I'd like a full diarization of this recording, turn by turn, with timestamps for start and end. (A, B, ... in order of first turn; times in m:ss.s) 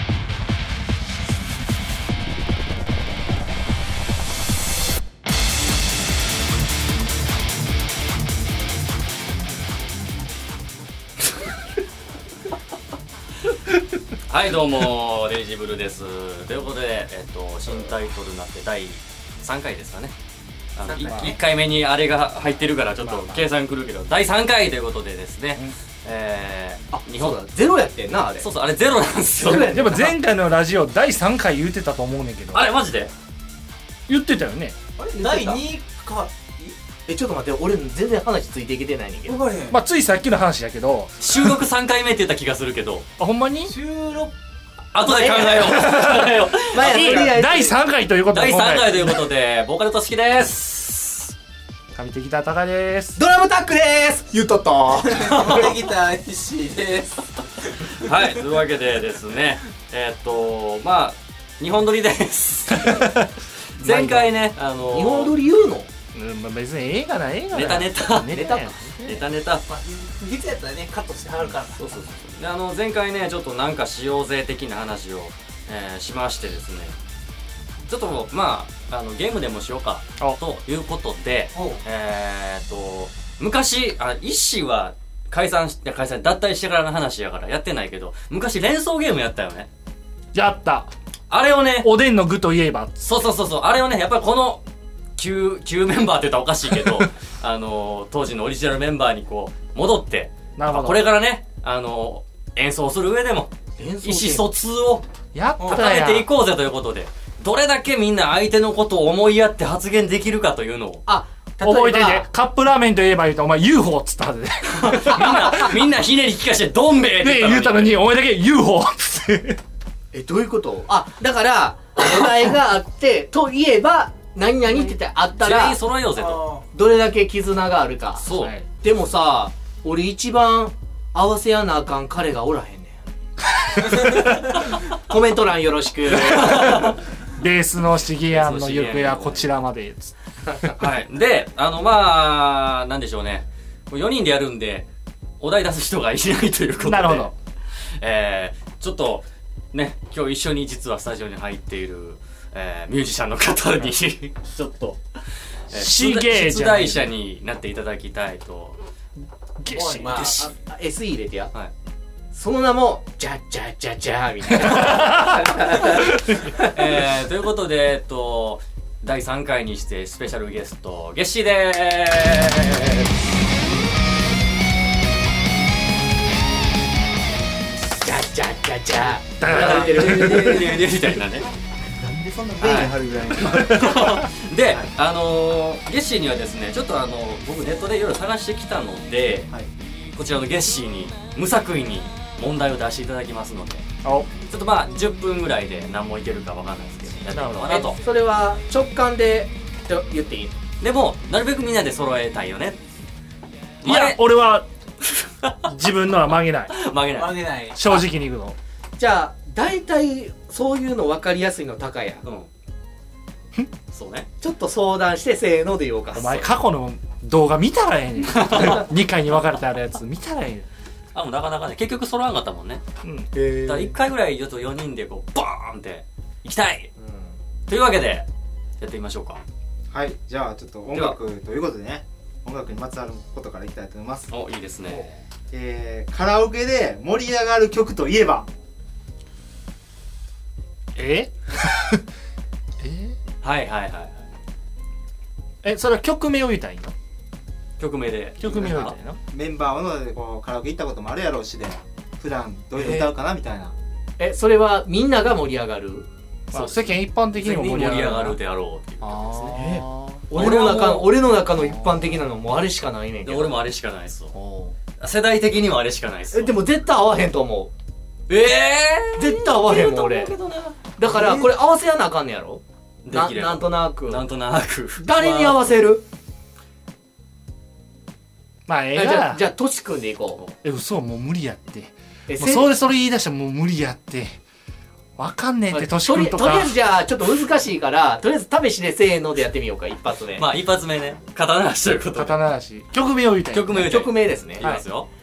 0:14.3-0:20.1 A
0:20.8-0:27.4 A
0:20.8-0:21.4 B
0:26.9-0:28.5 C
0:28.4-0:29.7 A
0:29.4-0:30.2 C
0:29.5-0:32.6 D
0:32.5-0:33.1 A
0:34.1-0:34.8 D
0:35.0-0:36.7 B
0:35.2-0:35.6 C
0:37.1-0:39.4 C
0:39.2-0:39.8 B
0:39.7-0:41.1 D
0:41.2-0:43.0 A
0:43.2-0:43.8 D
0:43.6-0:44.3 B
0:44.9-0:47.3 A
0:45.0-0:45.9 C
0:45.6-0:49.2 D
0:46.7-0:47.8 C
0:48.3-0:51.3 A
0:51.9-0:53.2 D
0:53.2-0:55.1 C
0:54.9-0:57.9 B
0:55.3-0:55.8 A
0:57.9-1:03.2 A
1:02.7-1:03.3 D
1:03.8-1:05.3 A
1:03.8-1:04.3 D
1:04.9-1:05.9 C
1:06.1-1:09.2 D
1:07.5-1:08.5 A
1:08.3-1:08.9 C
1:09.0-1:09.6 A
1:09.6-1:11.8 B
1:11.6-1:16.9 A
1:17.8-1:29.7 A
1:30.3-1:30.9 D
1:31.3-1:31.9 A
1:31.8-1:33.0 D
1:33.0-1:34.6 A
1:35.2-1:45.0 A
1:36.8-1:37.1 D
1:40.6-1:41.0 D
1:43.8-1:44.5 C
1:45.3-1:46.3 D
1:45.6-1:51.0 A
1:51.0-1:52.2 C
1:51.6-1:55.7 D
1:54.7-1:58.0 A
1:57.2-1:59.6 D
2:00.1-2:05.8 C
2:05.4-2:06.4 A
2:06.2-2:06.6 B
2:06.7-2:08.2 C
2:08.2-2:08.5 A
2:08.4-2:08.6 D
2:08.8-2:13.0 C
2:13.9-2:16.7 C
2:16.2-2:17.0 A
2:16.5-2:16.8 D
2:17.3-2:20.7 D
2:18.3-2:19.5 A
2:20.8-2:24.9 A
2:25.4-2:35.0 A
2:26.8-2:27.3 D
2:35.7-2:38.8 A
2:35.7-2:37.1 D
2:39.6-2:40.3 D
2:39.7-2:40.5 B
2:40.1-2:40.4 A
2:40.2-2:41.5 C
2:42.3-2:46.1 C
2:44.6-2:45.3 D
2:46.0-2:46.6 D
2:46.6-2:53.1 A
2:58.0-3:00.6 C
2:59.4-3:00.8 D
2:59.4-3:01.5 A
3:02.0-3:03.9 E
3:02.6-3:09.5 A
3:03.4-3:04.0 D
3:10.1-3:13.8 A
3:14.0-3:14.3 D
3:14.5-3:18.0 A
3:17.3-3:17.9 D
3:17.8-3:20.6 C
3:20.8-3:22.8 A
3:23.8-3:24.2 A
3:23.8-3:24.7 D
3:25.1-3:25.6 A
3:25.7-3:26.7 D
3:26.7-3:27.6 A
3:27.1-3:27.8 B
3:27.7-3:28.6 D
3:29.0-3:32.2 C
3:32.2-3:32.5 A
3:33.9-3:34.3 A
3:34.4-3:36.5 C
3:36.1-3:40.7 D
3:38.2-3:38.8 A
3:41.1-3:42.8 A
3:43.0-3:43.5 D
3:43.6-3:46.9 A
3:47.0-3:47.4 C
3:47.7-3:48.3 A
3:48.8-3:49.4 A
3:49.9-3:54.3 E
3:50.9-3:51.2 A
3:54.3-3:55.1 A
3:55.5-3:58.5 E
4:01.0-4:02.0 D
4:02.8-4:03.1 D
4:03.4-4:04.1 A
4:05.6-4:06.9 D
4:07.8-4:08.9 A
4:08.4-4:09.2 D
4:08.4-4:13.7 E
4:12.7-4:13.1 C
4:14.2-4:16.1 C
4:16.5-4:18.4 D
4:16.5-4:19.5 A
4:19.0-4:20.2 D
4:19.5-4:23.6 C
4:20.3-4:21.1 A
4:21.5-4:22.1 D
4:23.2-4:24.3 A
4:24.3-4:24.8 D
4:25.0-4:26.5 A
4:26.3-4:27.7 C
4:28.3-4:31.4 A
4:29.2-4:30.3 C
4:31.0-4:34.2 C
4:33.0-4:35.7 A
4:35.0-4:36.0 C
4:38.7-4:39.4 D
4:38.9-4:40.4 C
4:40.6-4:44.4 D
4:42.3-4:42.7 C
4:45.2-4:46.7 D
4:45.7-4:50.4 C
4:50.3-4:52.4 A
4:52.1-4:54.0 D
4:53.5-4:55.1 A
4:53.7-4:54.6 C